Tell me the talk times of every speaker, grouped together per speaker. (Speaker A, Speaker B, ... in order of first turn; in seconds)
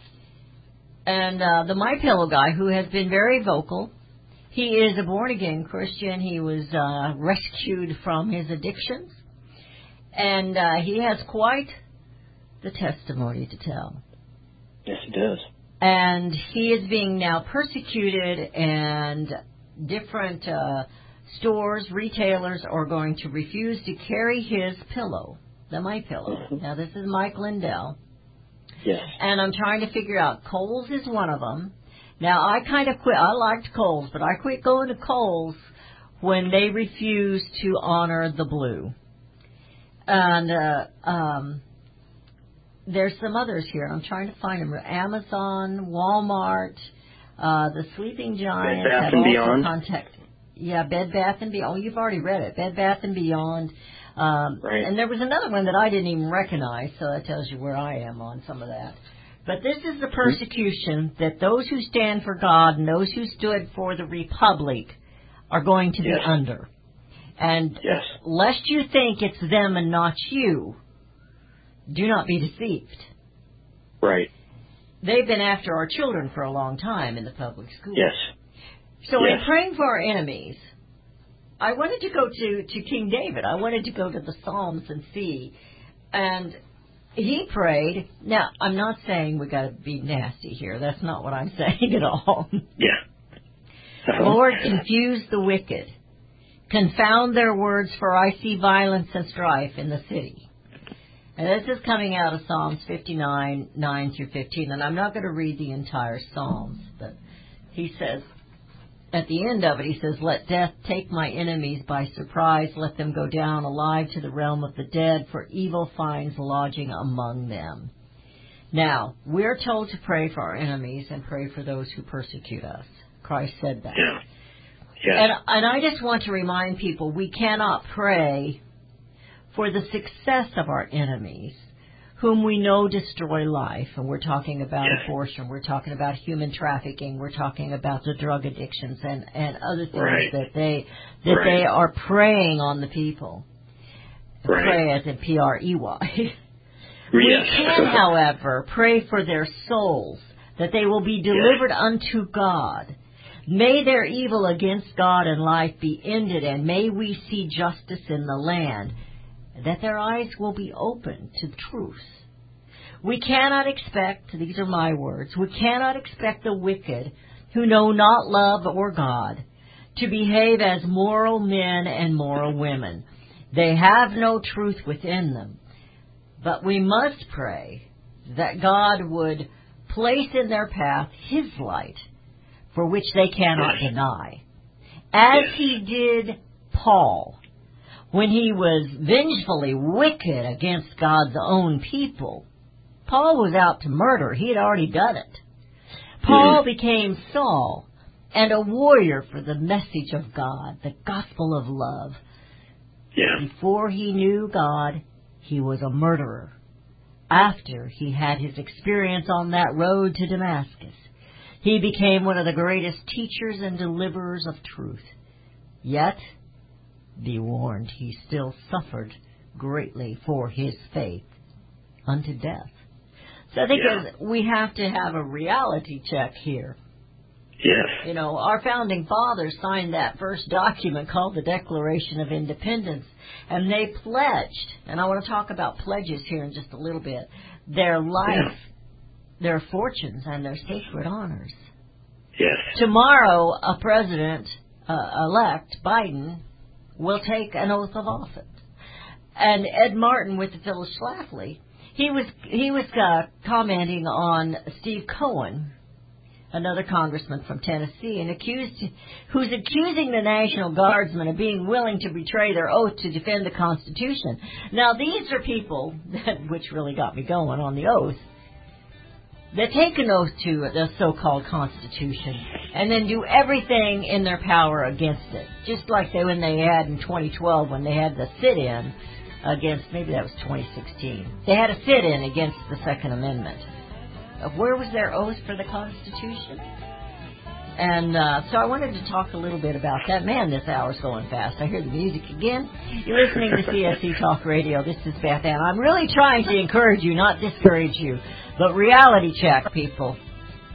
Speaker A: 1.1-3.9, 4.5-9.2, 10.2-11.8, 12.6-14.0, 15.8-28.0, 29.2-35.7, 36.2-38.9, 40.1-41.6, 42.9-46.9, 47.4-65.0, 65.5-66.7, 67.4-70.8, 71.9-73.1, 75.0-78.1, 79.0-80.7, 81.6-85.5, 86.1-86.6, 87.2-92.7, 94.2-95.9, 96.7-100.5, 101.4-107.2, 107.8-108.3, 109.1-117.9, 118.7-124.1, 125.1-128.6, 129.5-143.4, 144.4-146.3, 147.1-152.9, 153.5-158.9, 159.6-162.2, 163.0-169.4, 170.0-175.6, 176.4-182.1, 182.7-184.4, 185.1-187.4, 188.1-192.5, 193.1-195.4, 196.2-202.2, 203.4-206.5, 207.3-211.1, 211.6-215.1, 215.8-216.2, 217.2-221.3, 222.1-222.8, 223.5-226.8, 228.0-238.6, 239.4-241.7, 242.7-246.4, 247.0-248.5, 249.4-255.7, 256.5-268.2, 269.5-283.7, 284.4-286.6, 287.8-300.2
Speaker B: 14.9-15.4, 28.8-29.1, 48.6-49.7, 66.0-66.3, 67.8-68.1, 74.0-74.3, 79.2-79.4, 94.1-94.4, 139.9-140.3, 141.3-141.6, 144.5-144.8, 147.1-148.0, 196.3-196.6, 223.8-224.0, 227.6-228.0, 242.4-242.7